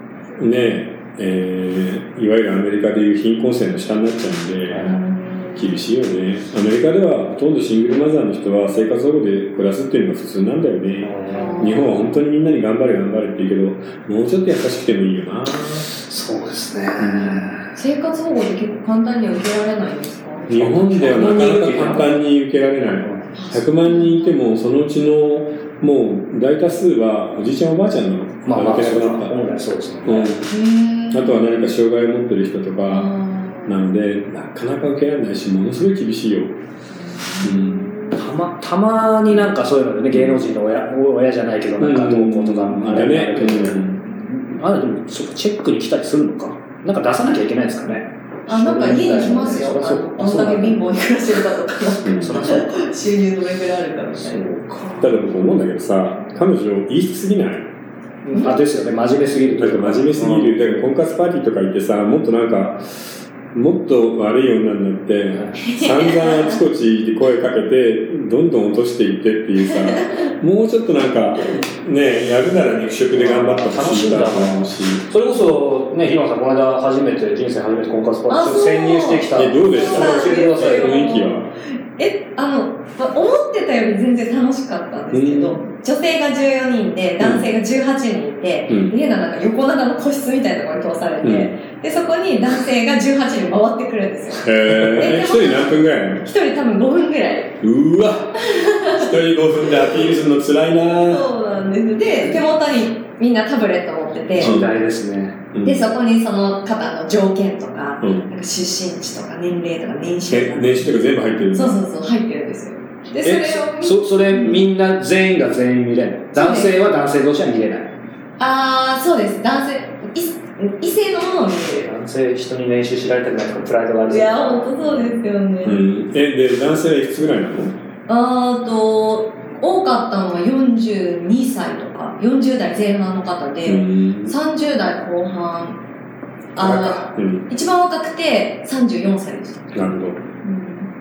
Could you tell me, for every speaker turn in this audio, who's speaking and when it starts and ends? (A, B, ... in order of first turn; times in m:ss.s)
0:00.4-0:05.0 A
0:04.7-0:05.0 B
0:04.8-0:05.9 C
0:05.5-0:15.9 A
0:11.0-0:11.9 B
0:11.3-0:12.0 C
0:16.0-0:17.7 B
0:17.0-0:17.5 A
0:17.6-0:20.7 C
0:20.5-0:29.3 A
0:20.5-0:22.1 B
0:23.3-0:24.4 C
0:28.4-0:30.4 B
0:30.0-0:30.5 A
0:30.5-0:31.6 C
0:31.1-0:36.6 A
0:32.9-0:33.8 C
0:37.1-0:38.2 C
0:37.4-0:37.9 A
0:38.1-0:51.0 B
0:40.1-0:40.4 A
0:41.8-0:44.0 A
0:48.5-0:54.5 C
0:52.0-0:52.4 A
0:52.2-0:52.8 B
0:54.1-0:55.5 B
0:55.0-0:57.7 A
0:58.2-1:00.9 B
0:59.6-1:02.8 A
1:03.5-1:15.1 A
1:05.6-1:06.6 C
1:13.1-1:21.0 B
1:18.3-1:21.4 C
1:19.3-1:21.5 A
1:22.0-1:37.6 C
1:25.1-1:25.6 A
1:27.2-1:27.4 A
1:28.7-1:28.9 A
1:31.2-1:31.5 A
1:34.4-1:36.2 A
1:37.6-1:41.3 A
1:38.4-1:39.1 C
1:39.6-1:40.1 C
1:41.1-1:44.6 C
1:44.4-1:45.4 B
1:44.4-1:44.7 A
1:45.5-1:45.8 A
1:45.6-1:50.9 C
1:50.3-1:51.8 A
1:51.5-1:54.6 C
1:53.2-1:57.9 B
1:56.4-1:56.7 C
1:58.4-2:01.9 C
2:01.8-2:04.7 B
2:04.1-2:05.8 C
2:05.6-2:07.8 A
2:08.1-2:15.8 C
2:13.6-2:14.3 A
2:16.5-2:19.7 C
2:16.6-2:17.4 A
2:19.7-2:20.2 A
2:20.4-2:20.9 C